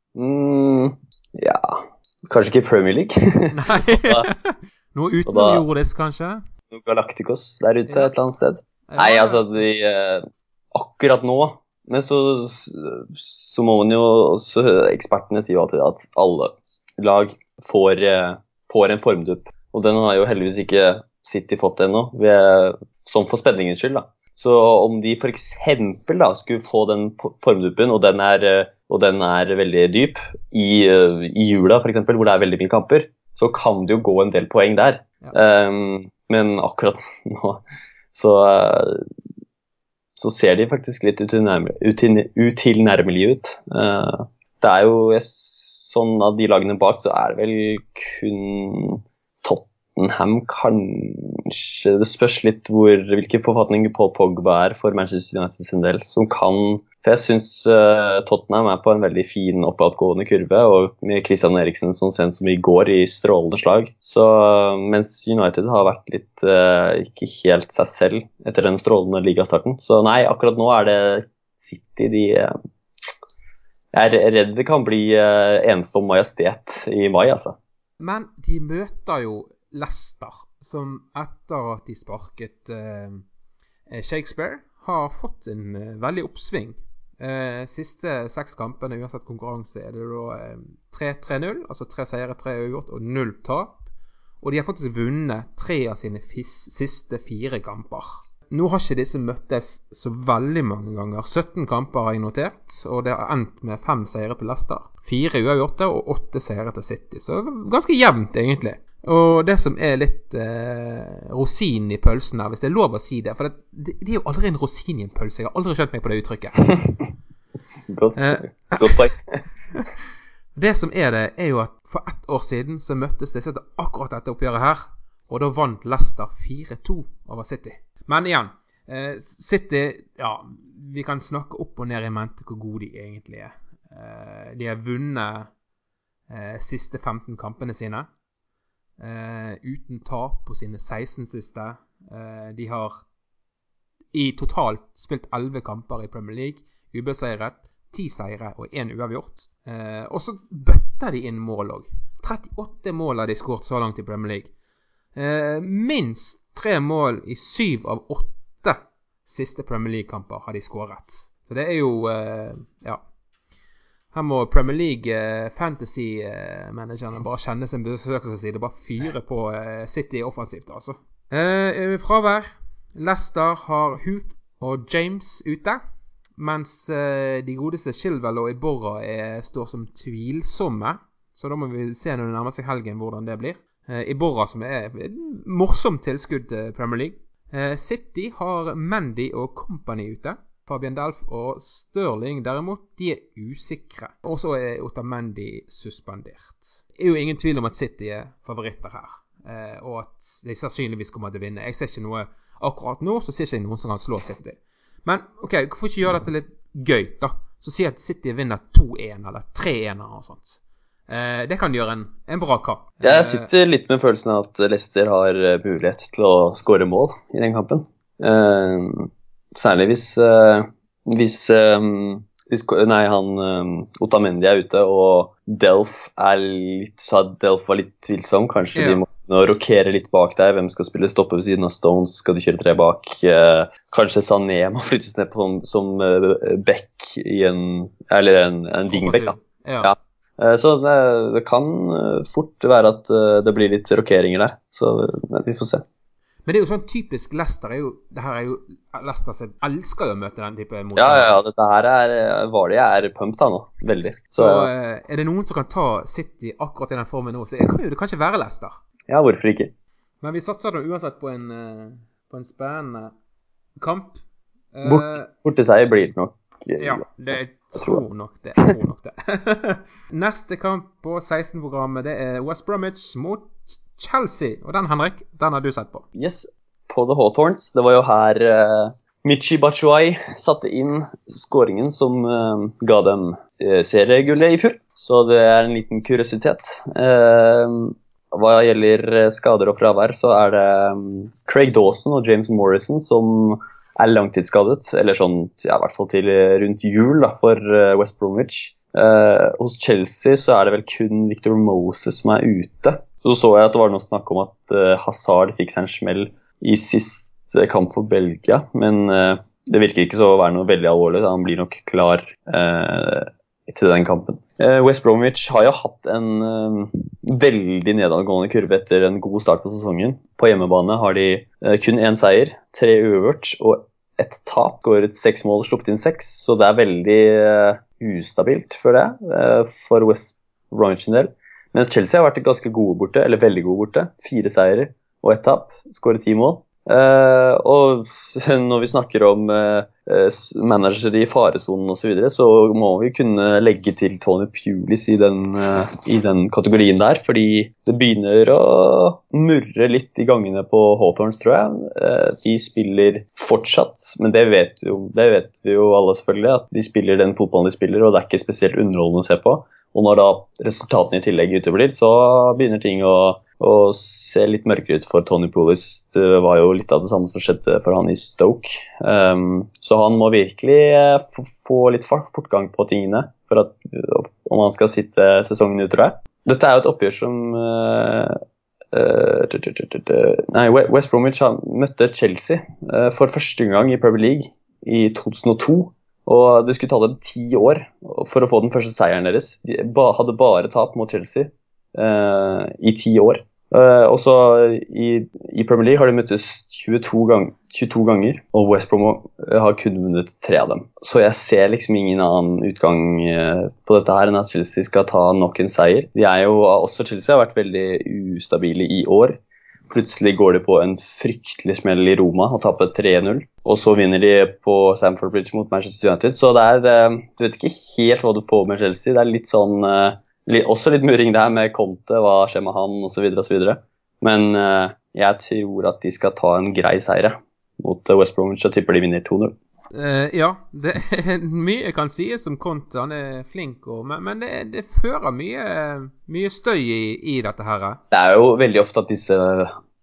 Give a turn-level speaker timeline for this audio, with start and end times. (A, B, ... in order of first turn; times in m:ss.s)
0:00.2-0:04.3 A
0:03.5-0:06.4 B
0:05.2-0:05.6 A
0:06.7-0:39.0 A
0:07.9-0:08.1 B
0:08.9-0:09.6 B
0:40.2-1:12.5 A
1:13.9-1:17.6 A
1:18.0-1:23.2 B
1:23.9-1:33.8 B
1:34.4-1:56.7 B
1:57.9-1:59.4 A
1:58.1-1:59.1 B
2:00.5-2:15.5 B
2:16.3-2:18.1 B
2:19.0-2:23.0 B
2:24.1-2:34.5 B
2:35.1-2:43.0 B
2:44.1-2:55.8 B
2:56.4-3:33.5 B
3:33.0-4:05.8 A
3:48.7-3:49.0 B
3:58.9-3:59.9 B
4:06.4-4:11.4 B
4:11.0-4:14.7 A
4:14.4-4:18.7 B
4:19.1-4:19.7 A
4:20.2-4:23.1 B
4:23.8-4:24.2 B
4:24.7-4:25.3 B
4:24.8-4:28.0 A
4:26.8-4:36.0 B
4:36.1-6:18.4 A
6:18.9-7:09.5 A
7:09.9-7:18.0 B
7:18.1-7:19.7 A